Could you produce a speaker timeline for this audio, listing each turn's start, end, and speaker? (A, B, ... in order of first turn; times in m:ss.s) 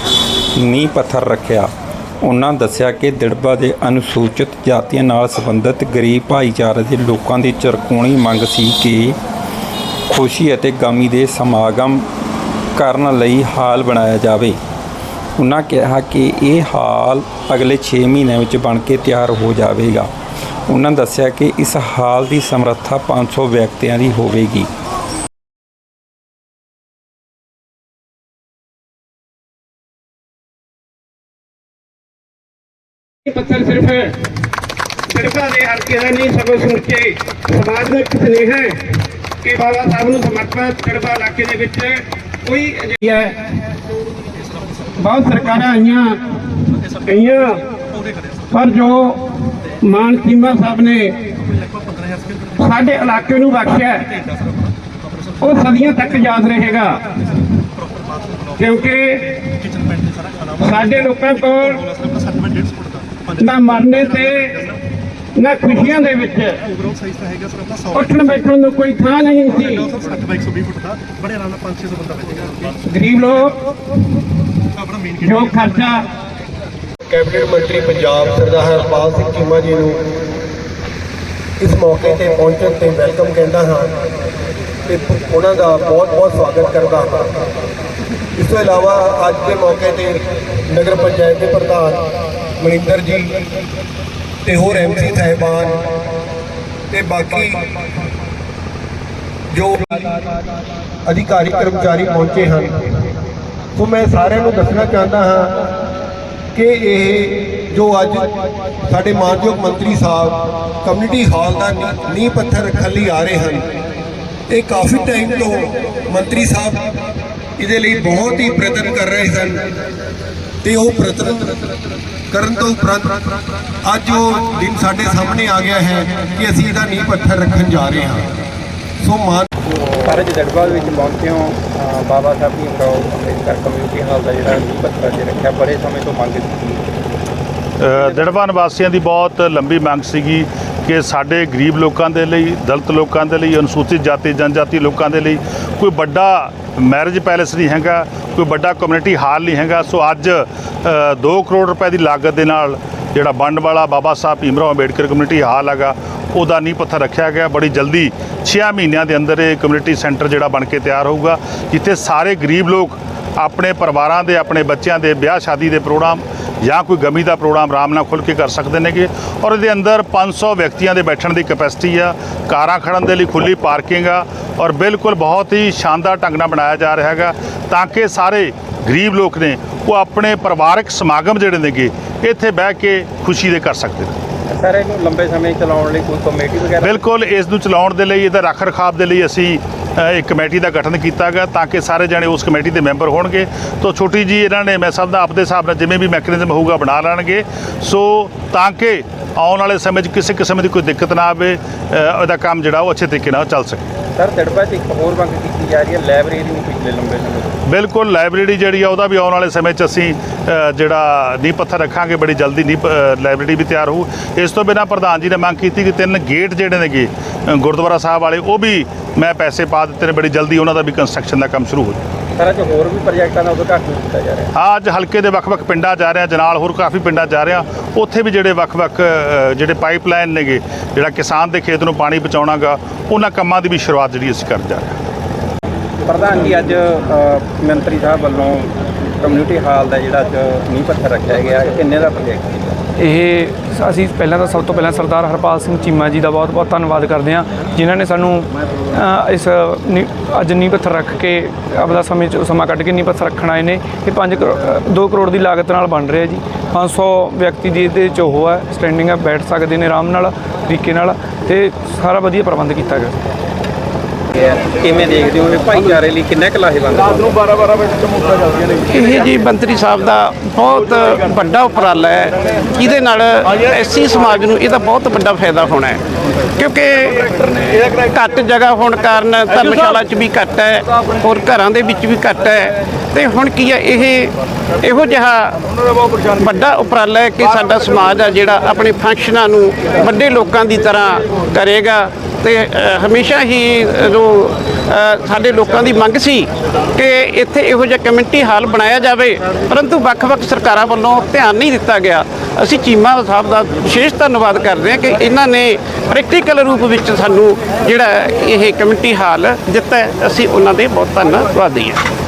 0:00.6-0:01.7 A
0:02.2-0:09.2 A
0:10.1-0:12.0 A
0:12.8-0:14.6 A
0:15.4-0:20.1 A
0:20.7-0:24.7 A
0:33.2-0:34.1 B
0:35.1-0:38.8 B
0:39.4-0:43.4 B
0:44.8-0:45.1 C
0:45.0-0:46.2 B
0:46.8-0:47.2 C
0:47.1-0:47.6 B
0:47.9-0:48.6 C
0:48.5-0:49.2 B
0:49.8-0:51.2 B
0:51.7-0:52.7 C
0:52.6-0:54.0 B
0:55.2-0:56.3 C
0:55.4-0:57.0 B
0:57.8-0:59.0 C
0:58.7-0:59.4 B
0:59.6-1:04.8 C
1:00.6-1:01.8 B
1:03.4-1:04.6 B
1:05.4-1:06.6 B
1:06.7-1:08.4 C
1:08.0-1:09.9 B
1:09.5-1:12.8 C
1:12.9-1:13.6 B
1:14.8-1:16.0 C
1:15.2-1:16.0 B
1:17.1-1:20.0 D
1:21.6-1:24.0 D
1:24.9-1:27.3 D
1:28.4-1:32.0 D
1:32.6-1:33.3 D
1:34.4-1:35.9 D
1:36.9-1:37.6 D
1:39.5-1:40.3 D
1:41.1-1:42.8 D
1:43.8-1:45.7 D
1:46.5-1:48.3 D
1:48.9-1:53.7 D
1:54.5-1:56.8 D
1:57.6-1:59.6 D
2:00.6-2:01.6 D
2:02.3-2:03.2 D
2:03.8-2:08.3 D
2:09.0-2:09.5 D
2:10.0-2:16.9 E
2:17.8-3:04.2 F
2:17.9-2:18.3 E
3:04.5-3:07.0 E
3:06.8-3:23.9 F
3:24.2-3:27.6 E
3:27.7-3:42.0 F
3:42.4-3:44.5 E
3:44.6-3:55.0 F
3:56.0-4:02.8 E
4:03.0-4:23.1 G
4:24.4-4:27.5 E
4:28.9-4:36.0 H
4:36.6-4:45.6 H
4:46.4-5:12.0 H